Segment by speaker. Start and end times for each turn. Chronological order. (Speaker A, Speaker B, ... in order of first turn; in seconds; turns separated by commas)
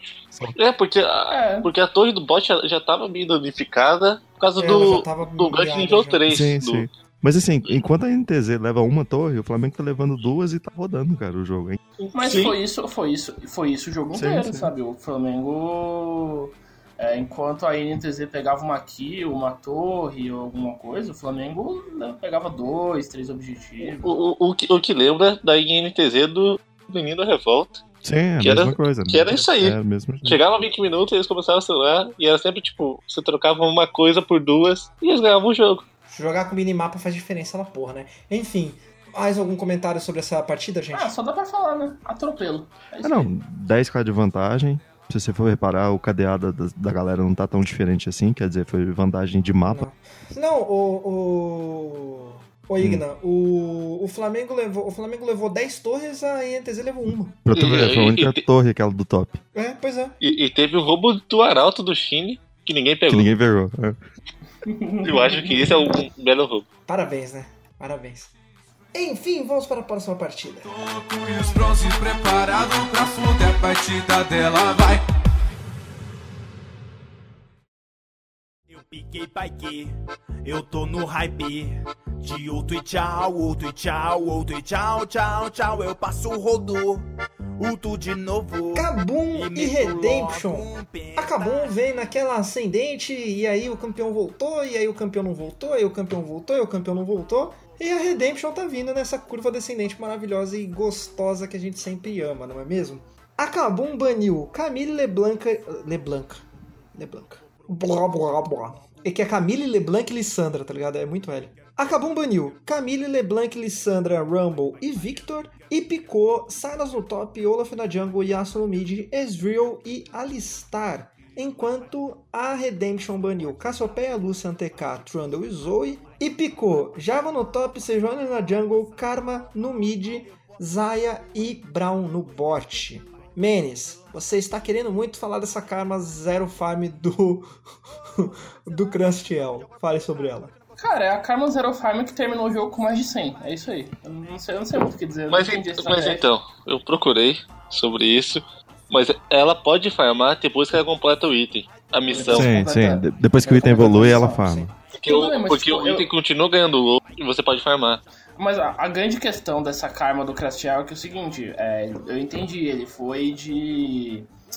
Speaker A: 0.6-6.9, Speaker B: 1.3-1.7, Speaker C: 4.6-6.2, Speaker D: 6.3-11.8, Speaker A: 12.0-12.6, Speaker B: 12.1-24.1, Speaker D: 14.1-14.7, Speaker A: 23.8-27.8, Speaker D: 28.0-30.4, Speaker A: 28.4-35.8, Speaker C: 36.1-41.1, Speaker B: 40.9-43.3, Speaker D: 43.0-49.9, Speaker C: 49.7-57.4, Speaker D: 52.8-53.0, Speaker D: 57.5-59.4, Speaker A: 57.5-58.4, Speaker C: 59.5-60.2, Speaker A: 60.2-63.3, Speaker D: 63.1-64.0, Speaker B: 64.6-66.0, Speaker A: 65.0-66.7, Speaker C: 66.9-68.3, Speaker C: 68.9-70.7, Speaker E: 70.6-75.0, Speaker F: 78.7-79.9, Speaker F: 80.4-87.0, Speaker F: 87.6-91.8, Speaker C: 88.7-137.5, Speaker C: 138.2-140.5, Speaker B: 140.8-146.2, Speaker A: 145.3-152.5, Speaker B: 152.1-156.1, Speaker D: 152.3-154.7, Speaker C: 153.7-154.6, Speaker A: 154.9-158.0, Speaker B: 158.4-164.3